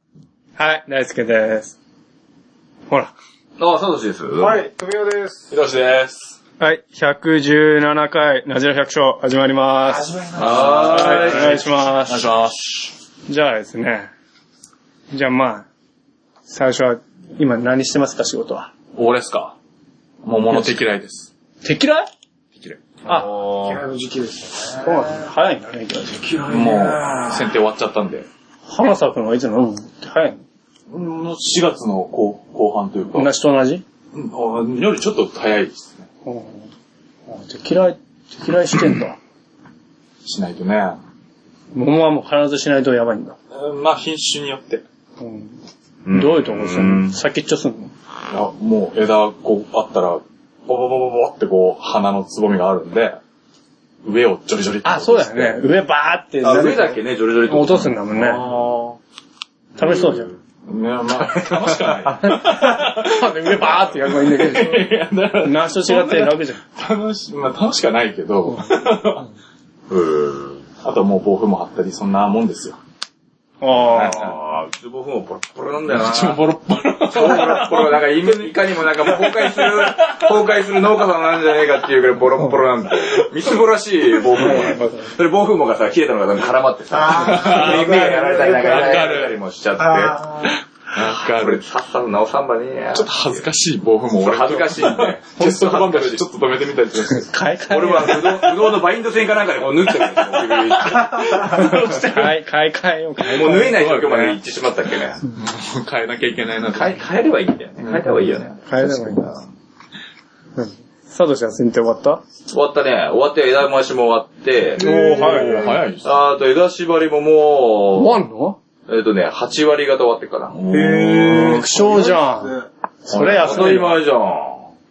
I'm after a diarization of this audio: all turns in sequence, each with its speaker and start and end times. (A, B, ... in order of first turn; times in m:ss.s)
0:00.6-0:01.8 A
0:03.6-0:04.6 B
0:04.4-0:05.5 C
0:05.5-0:06.4 D
0:06.6-0:10.1 A
0:09.9-0:11.3 C
0:10.4-0:11.6 B
0:10.4-0:12.9 D
0:10.8-0:12.3 A
0:13.3-0:14.1 A
0:15.1-0:15.7 A
0:16.5-0:18.7 A
0:19.0-0:19.6 D
0:20.2-0:21.3 D
0:20.5-0:20.8 A
0:21.6-0:22.1 A
0:23.0-0:23.7 B
0:23.6-0:25.3 C
0:24.8-0:26.2 A
0:26.1-0:27.3 C
0:26.5-0:28.3 D
0:28.7-0:30.4 A
0:30.9-0:33.3 D
0:33.1-0:33.8 A
0:34.1-0:36.1 D
0:36.2-0:36.7 A
0:37.3-0:39.2 A
0:40.2-0:41.0 D
0:41.7-0:43.4 A
0:43.5-0:44.8 D
0:45.2-0:45.6 A
0:46.0-0:47.2 B
0:46.1-0:47.9 A
0:48.3-0:53.2 D
0:54.0-0:55.6 D
0:54.8-0:58.4 A
0:56.4-0:58.0 B
0:58.1-0:59.0 D
0:59.8-1:00.3 A
0:59.8-1:00.4 B
1:00.7-1:09.3 D
1:01.1-1:02.5 B
1:02.3-1:06.6 A
1:09.9-1:10.7 B
1:10.8-1:12.8 D
1:13.6-1:14.4 A
1:13.9-1:16.4 B
1:15.9-1:20.3 D
1:17.1-1:30.2 B
1:24.4-1:24.7 D
1:24.4-1:25.2 A
1:26.9-1:29.2 C
1:27.1-1:28.1 D
1:28.6-1:29.4 D
1:29.8-1:30.6 C
1:30.4-1:31.6 D
1:31.0-1:33.4 B
1:32.9-1:37.3 D
1:34.1-1:36.2 B
1:37.1-1:38.6 A
1:37.7-1:42.1 B
1:40.2-1:42.3 D
1:41.5-1:44.2 A
1:43.3-1:45.2 B
1:43.4-1:44.4 D
1:45.4-1:47.0 D
1:46.7-1:49.5 B
1:47.8-1:48.2 D
1:48.7-1:49.3 A
1:50.6-1:52.2 A
1:52.5-1:54.8 B
1:54.8-1:55.7 C
1:54.8-1:55.7 A
1:55.1-1:56.1 D
1:56.0-1:58.2 B
1:58.0-1:58.6 A
1:58.9-2:00.6 B
2:00.5-2:01.7 D
2:00.7-2:02.7 C
2:01.2-2:02.5 A
2:03.0-2:04.0 A
2:03.1-2:03.9 D
2:03.2-2:04.7 B